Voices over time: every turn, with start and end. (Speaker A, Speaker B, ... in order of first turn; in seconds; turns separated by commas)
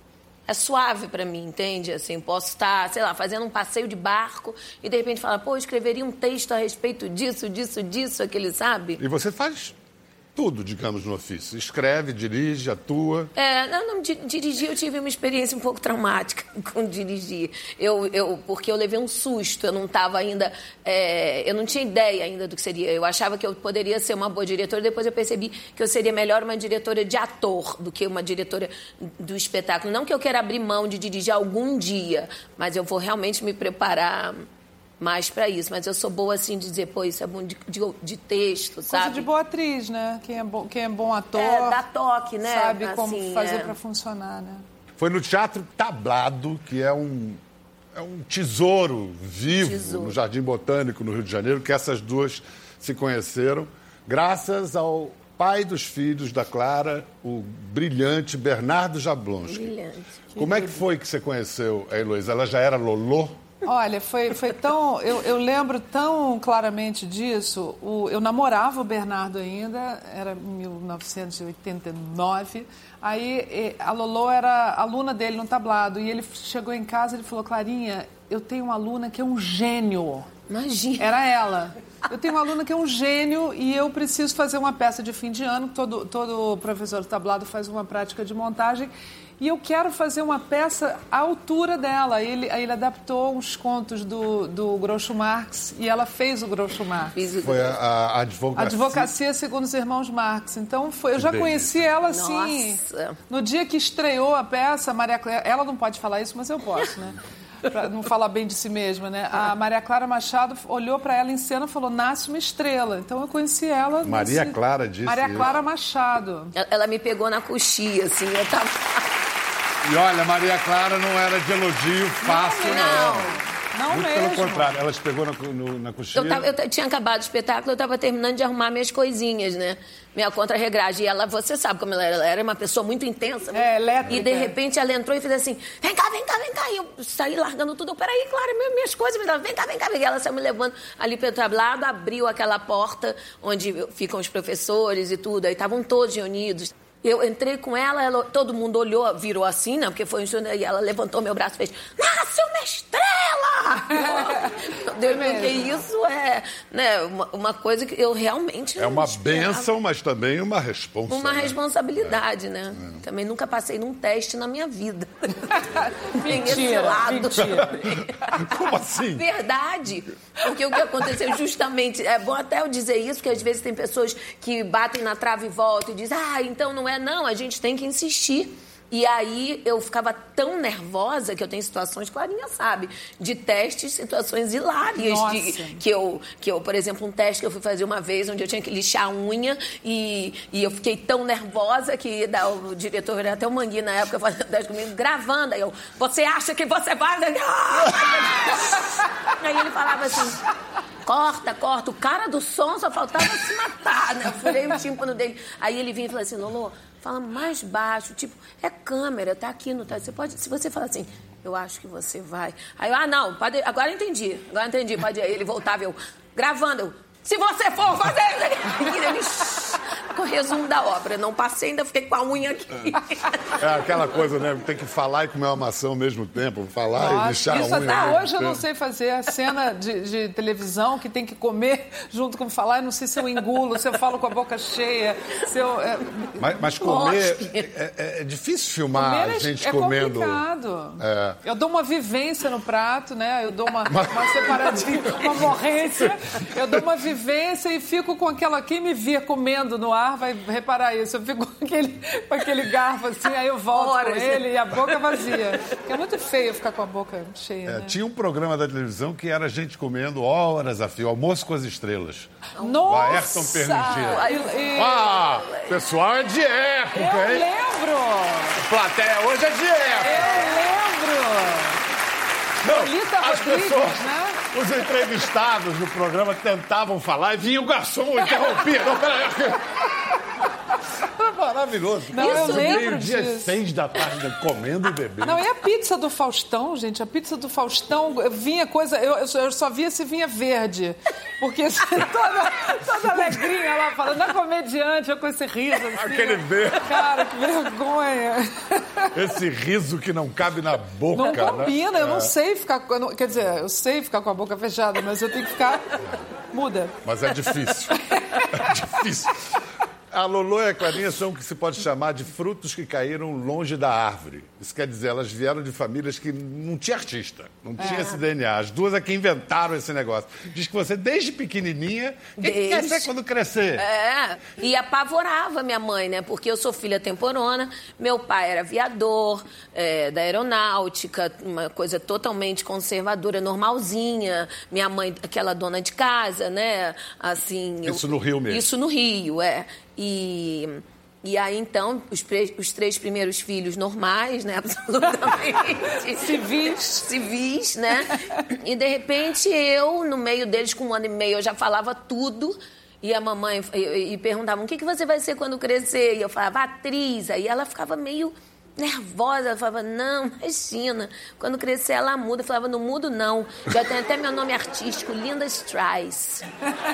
Speaker A: 0.5-9.0, Speaker B: 9.0-9.7, Speaker B: 10.3-13.3, Speaker A: 13.3-34.5, Speaker A: 35.0-39.3, Speaker C: 38.9-41.8, Speaker A: 41.4-43.7, Speaker C: 42.4-44.6, Speaker B: 45.0-47.4, Speaker B: 47.9-59.7, Speaker A: 49.6-50.1, Speaker A: 59.5-60.7, Speaker B: 60.4-63.4, Speaker C: 63.6-80.3, Speaker A: 80.5-81.1, Speaker C: 81.0-97.1, Speaker A: 97.1-97.8, Speaker B: 97.4-99.1, Speaker C: 98.5-116.5, Speaker B: 101.2-101.8, Speaker A: 102.1-103.2, Speaker B: 114.0-115.5, Speaker A: 116.5-119.0, Speaker B: 119.8-123.3, Speaker C: 122.2-124.7, Speaker A: 122.7-123.4, Speaker B: 123.9-126.5, Speaker A: 126.1-159.7, Speaker C: 133.5-134.6, Speaker C: 154.0-155.8, Speaker B: 158.8-162.2, Speaker A: 161.1-165.6, Speaker C: 166.1-167.8, Speaker A: 166.1-168.3, Speaker B: 167.8-169.2, Speaker A: 169.1-200.4, Speaker C: 184.9-185.8, Speaker A: 201.0-223.6, Speaker B: 223.6-228.6, Speaker C: 226.9-237.0, Speaker A: 227.5-228.2, Speaker B: 236.4-240.4, Speaker A: 236.8-237.7, Speaker C: 238.9-258.0, Speaker B: 241.0-241.4, Speaker B: 243.8-245.5, Speaker A: 253.7-255.2, Speaker B: 257.6-267.5, Speaker A: 262.5-265.8, Speaker C: 262.6-265.1, Speaker C: 266.9-268.6, Speaker B: 268.6-270.5, Speaker C: 270.0-271.8, Speaker A: 270.2-270.5, Speaker B: 272.6-280.2, Speaker C: 272.6-274.4, Speaker B: 281.0-285.4, Speaker C: 282.1-283.6, Speaker A: 282.1-282.9, Speaker C: 285.2-299.1, Speaker B: 295.9-297.0, Speaker B: 299.1-302.3, Speaker C: 301.1-305.9, Speaker C: 306.5-307.0, Speaker B: 307.0-309.4, Speaker C: 308.1-308.6, Speaker B: 310.1-323.8, Speaker C: 317.8-318.1, Speaker A: 317.8-318.1, Speaker A: 322.4-323.1, Speaker A: 323.8-366.4, Speaker B: 337.8-338.7, Speaker C: 346.1-347.0